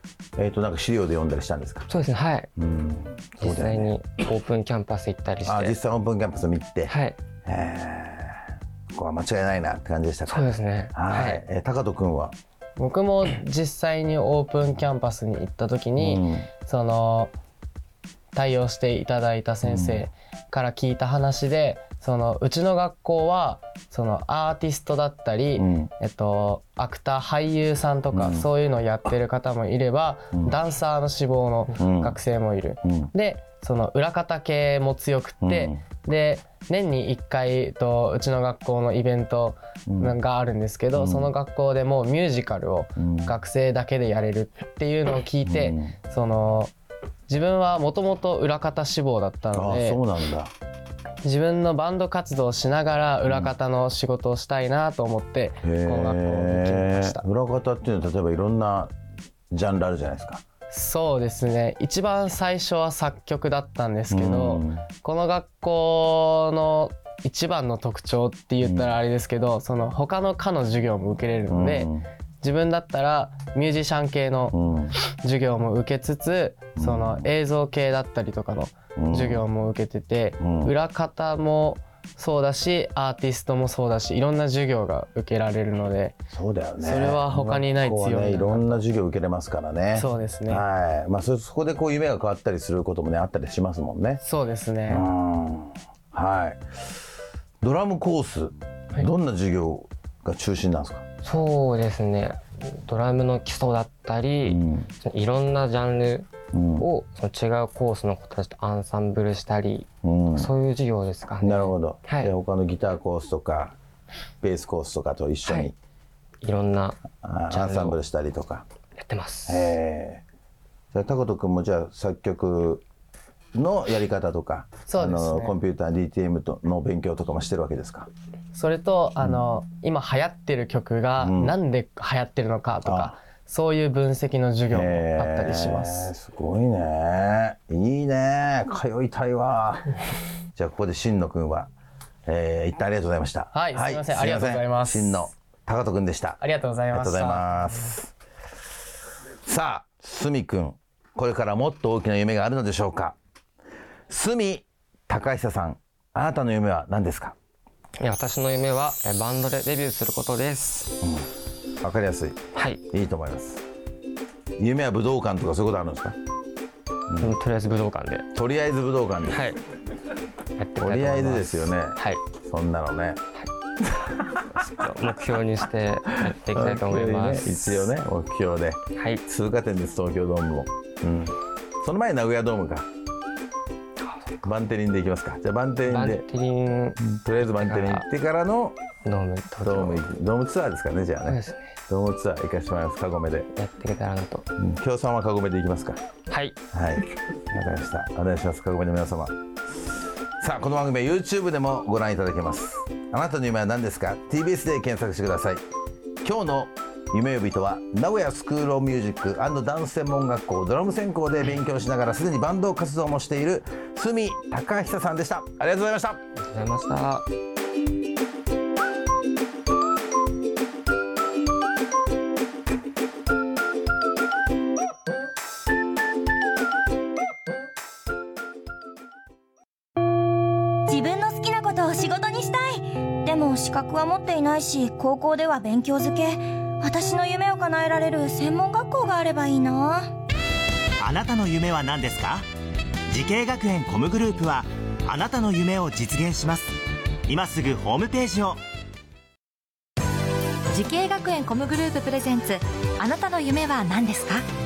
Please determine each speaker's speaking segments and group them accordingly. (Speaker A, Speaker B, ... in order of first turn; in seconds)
Speaker A: 0.4-1.9, 2.6-3.9, 5.5-6.9, 7.5-12.3, 16.0-16.5, 19.6-20.1, 25.6-25.9, 28.1-28.5, 31.8-32.2, 32.8-33.1, 35.4-35.8, 39.9-40.1, 40.9-41.3, 43.0-43.3, 45.4-46.0, 49.5-50.5, 53.3-53.5, 55.6-58.9, 59.5-60.4, 64.1-64.9, 68.6-69.0, 71.5-72.1, 74.5-74.9, 76.8-77.3, 79.0-79.4, 80.4-80.7, 86.3-94.2, 94.9-96.6, 97.6-101.0, 104.5-104.9, 106.5-106.9, 110.0-110.5, 111.4-113.8, 114.4-115.8, 117.2-118.7, 119.5-120.2, 120.9-122.8, 123.5-128.1, 131.2-131.6, 132.8-133.2, 134.7-140.0, 140.6-141.7, 142.3-146.4, 146.9-148.1, 149.4-153.2, 154.1-157.3, 161.0-161.3, 161.8-162.4, 162.9-163.6, 164.6-166.2, 167.1-167.3, 168.3-169.6, 170.8-173.2, 176.5-182.9, 184.4-186.2, 187.0-188.8, 189.6-191.4, 191.9-193.5, 194.6-196.0, 196.7-199.3, 200.4-205.6, 206.2-216.2
Speaker B: 1.9-2.5, 3.4-5.8, 6.9-7.2, 10.3-11.4, 101.2-112.3, 115.5-115.7, 116.4-118.0, 119.0-119.8, 158.0-160.9, 162.6-162.8, 167.2-168.3, 169.3-169.6, 170.6-172.2, 174.5-177.9, 178.9-179.2, 185.9-188.1, 189.0-190.1, 191.2-191.7, 193.5-194.5, 196.3-196.6, 216.4-217.3
Speaker C: 12.8-17.3, 18.3-46.7, 47.3-50.0, 51.2-57.2, 60.7-86.2, 86.8-88.8, 90.0-90.6, 94.2-95.0, 124.9-125.6, 128.5-136.1, 143.5-145.2, 146.4-147.6
Speaker D: 230.9-240.1
Speaker E: 241.0-242.5, 243.1-246.7, 247.3-248.6
Speaker F: 250.7-254.4